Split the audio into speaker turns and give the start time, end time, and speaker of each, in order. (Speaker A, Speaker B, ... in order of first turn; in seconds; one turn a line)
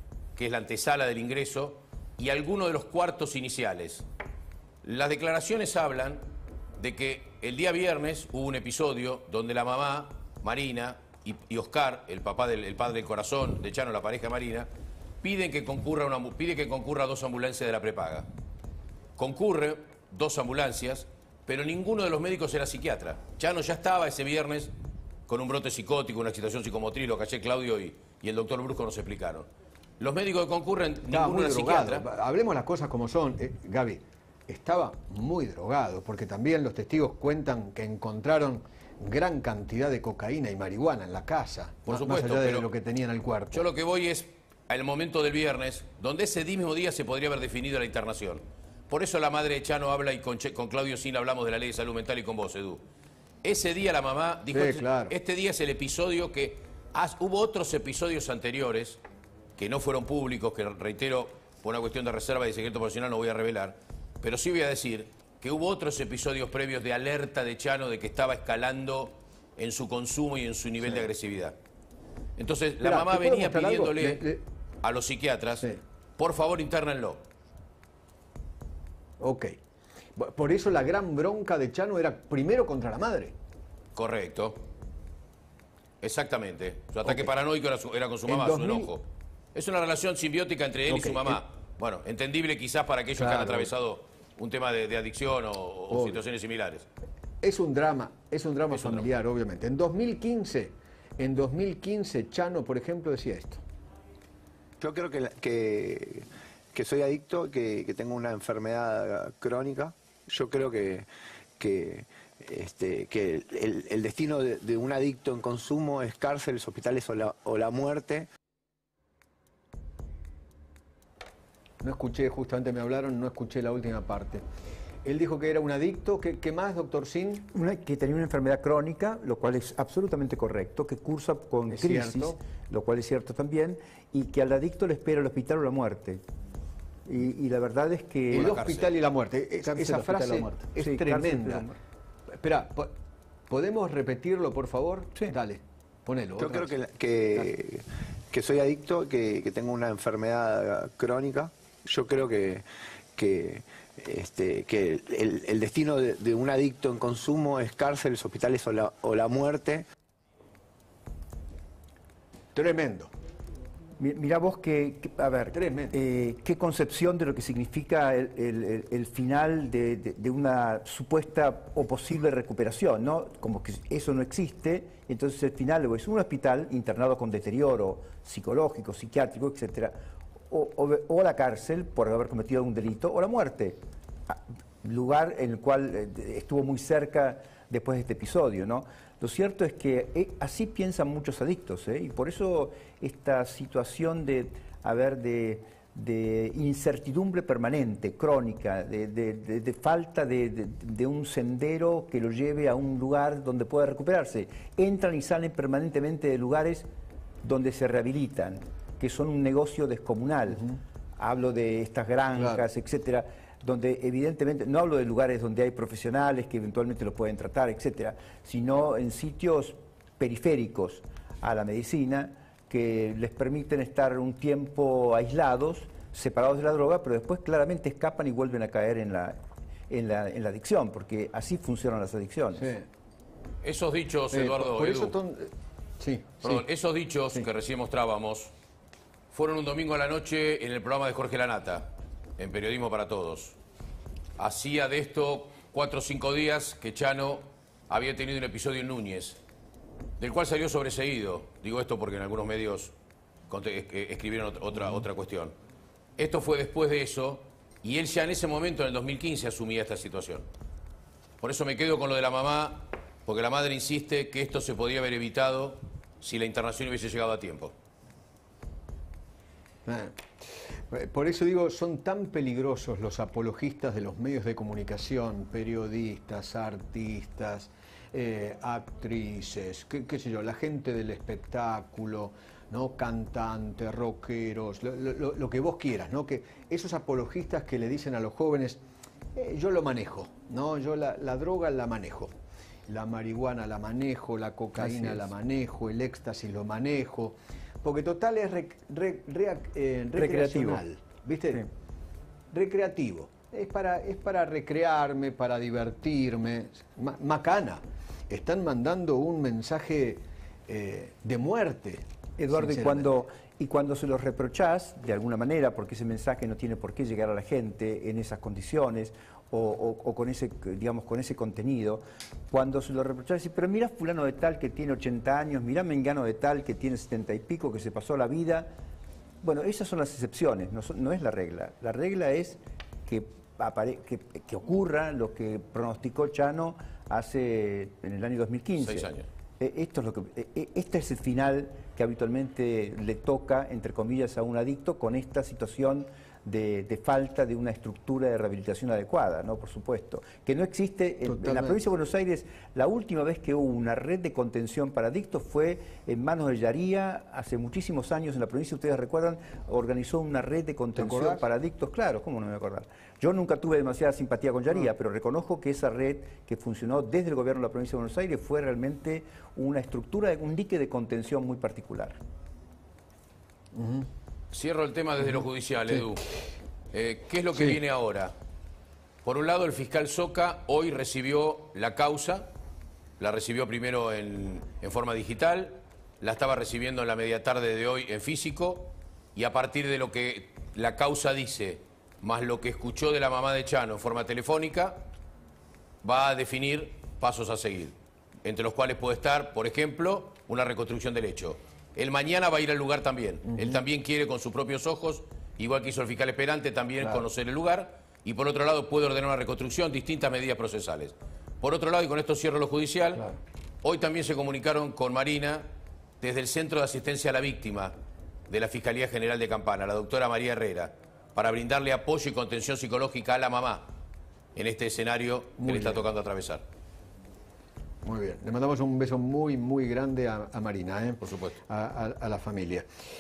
Speaker A: 0.4-4.1
Speaker A: 4.8-6.2
Speaker A: 6.8-14.7
Speaker A: 15.2-18.3
Speaker A: 19.2-24.7
Speaker A: 25.3-29.5
Speaker A: 30.0-32.0
Speaker B: 31.1-43.6
Speaker A: 41.9-42.7
Speaker A: 43.5-52.8
Speaker A: 53.4-59.0
Speaker B: 54.5-55.2
Speaker A: 59.6-71.6
Speaker A: 72.4-74.3
Speaker B: 72.8-74.4
Speaker A: 74.8-77.2
Speaker B: 79.2-79.6
Speaker B: 80.2-83.3
Speaker A: 84.0-84.6
Speaker A: 86.0-89.0
Speaker B: 88.3-88.9
Speaker A: 89.5-96.9
Speaker B: 90.9-91.4
Speaker B: 93.2-93.7
Speaker B: 95.9-96.2
Speaker B: 97.4-103.6
Speaker A: 98.7-99.1
Speaker C: 104.8-111.1
Speaker C: 111.6-118.3
Speaker B: 121.8-124.4
Speaker B: 125.0-127.5
Speaker D: 127.5-136.2
Speaker B: 131.7-132.4
Speaker D: 137.1-138.6
Speaker A: 138.3-138.9
Speaker B: 138.3-141.7
Speaker D: 139.6-141.8
Speaker B: 142.3-142.9
Speaker B: 143.5-146.8
Speaker C: 146.4-152.7
Speaker C: 153.2-159.9
Speaker B: 162.6-163.1
Speaker D: 164.0-179.9
Speaker B: 165.5-166.0
Speaker D: 180.5-206.9
Speaker D: 207.4-229.4
Speaker B: 212.4-212.6
Speaker D: 229.9-232.7
Speaker B: 232.6-232.9
Speaker A: 233.6-235.2
Speaker B: 234.3-236.6
Speaker A: 236.4-238.5
Speaker A: 239.3-243.6
Speaker A: 244.4-249.4
Speaker A: 250.2-252.9
Speaker A: 253.5-255.6
Speaker A: 256.2-260.5
Speaker A: 261.4-267.7
Speaker B: 269.9-270.2
Speaker B: 270.9-288.8
Speaker B: 289.4-292.3
Speaker B: 292.9-301.7
Speaker D: 294.8-295.3
Speaker D: 300.2-300.8
Speaker B: 302.5-313.1
Speaker D: 312.4-328.7
Speaker D: 329.4-372.2
Speaker A: 338.8-339.3
Speaker B: 351.3-351.8
Speaker B: 361.0-361.4
Speaker B: 373.8-374.1
Speaker A: 374.5-376.3
Speaker A: 376.9-378.3
Speaker A: 379.2-382.5
Speaker A: 383.2-395.1
Speaker A: 396.0-413.2
Speaker A: 413.8-415.6
Speaker A: 416.2-417.9
Speaker A: 418.5-423.9
Speaker A: 424.6-426.6
Speaker B: 425.6-426.1
Speaker B: 428.0-432.9
Speaker A: 431.2-431.6